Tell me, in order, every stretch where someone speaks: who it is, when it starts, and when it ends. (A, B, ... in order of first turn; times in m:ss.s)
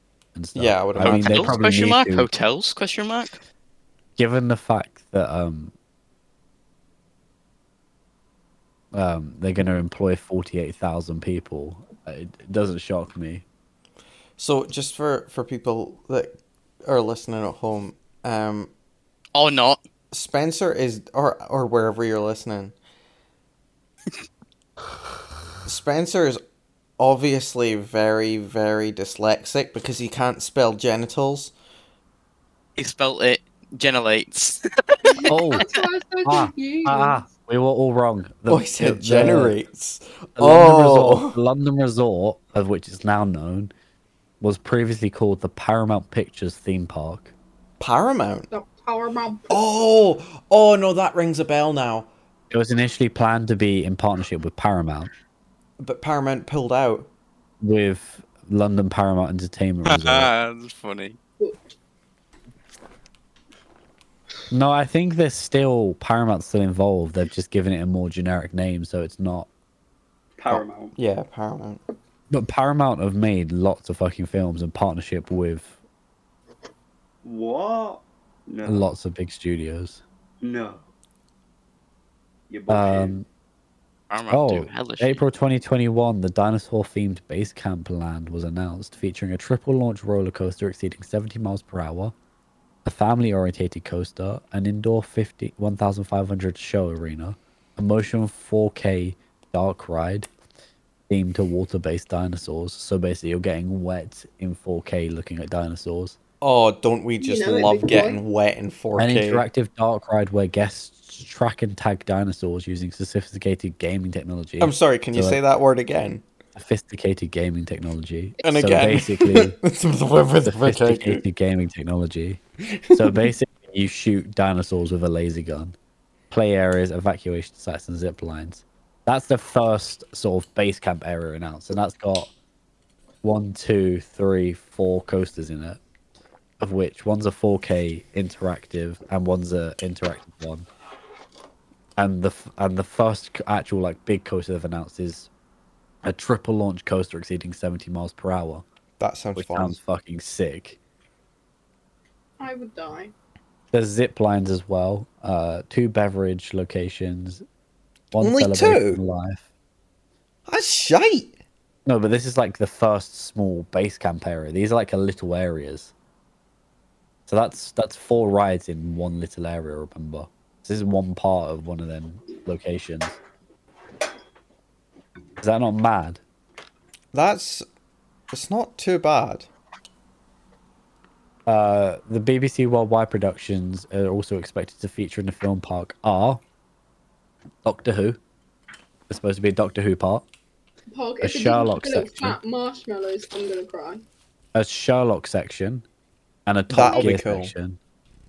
0:00.4-0:02.3 A
0:00.6-0:01.6 B
0:01.0-0:03.4 C
0:04.2-0:05.7 A
0:08.9-0:13.4 A
0:14.4-0:18.7 B
0:19.3-0:19.8 C
0:20.1-0:22.8 B
0:25.6-0:26.4 B
0:27.0-0:31.5 B
0:32.8-0:35.4 C
0:35.1-0:37.2 D
0:35.3-0:35.7 A
0:36.2-0:39.6 A
0:38.5-0:41.4 B
0:40.4-0:43.7 A
0:44.4-0:47.3 A
0:47.8-0:48.5 B
0:48.5-0:49.6 D
0:49.5-0:52.1 B
0:52.5-0:55.1 A
0:55.8-0:57.1 B
0:57.6-1:00.3 A
0:59.9-1:01.2 C
1:01.4-1:01.7 D
1:04.5-1:09.5 A
1:10.4-1:11.0 E
1:10.5-1:11.8 B
1:12.3-1:15.8 A
1:17.2-1:18.9 E
1:18.6-1:20.0 A
1:20.4-1:20.8 E
1:22.5-1:23.2 E
1:22.7-1:23.3 A
1:24.1-1:25.2 C
1:24.3-1:32.1 A
1:32.8-1:40.3 A
1:41.1-1:46.2 A
1:46.4-1:49.4 B
1:47.2-1:48.2 D
1:49.0-1:55.4 A
1:54.6-1:56.2 B
1:56.6-1:59.6 A
1:58.4-2:01.2 B
2:00.4-2:02.4 A
2:02.7-2:03.3 B
2:02.9-2:05.8 A
2:06.3-2:12.3 A
2:13.2-2:15.8 A
2:16.6-2:20.7 A
2:22.0-2:25.3 A
2:26.0-2:28.6 A
2:29.0-2:29.8 B
2:29.4-2:30.8 A
2:32.4-2:33.1 D
2:33.7-2:37.4 A
2:38.1-2:39.5 A
2:38.2-2:39.0 B
2:40.5-2:41.4 B
2:41.9-2:45.9 A
2:47.3-2:53.2 A
2:55.4-2:56.2 A
2:57.1-2:57.7 B
2:58.3-2:59.5 B
3:01.5-3:06.4 A
3:07.6-3:08.2 A
3:09.1-3:10.2 A
3:10.9-3:14.0 D
3:11.2-3:12.4 A
3:14.6-3:15.8 A
3:16.5-3:17.8 A
3:16.7-3:17.5 B
3:16.9-3:17.1 D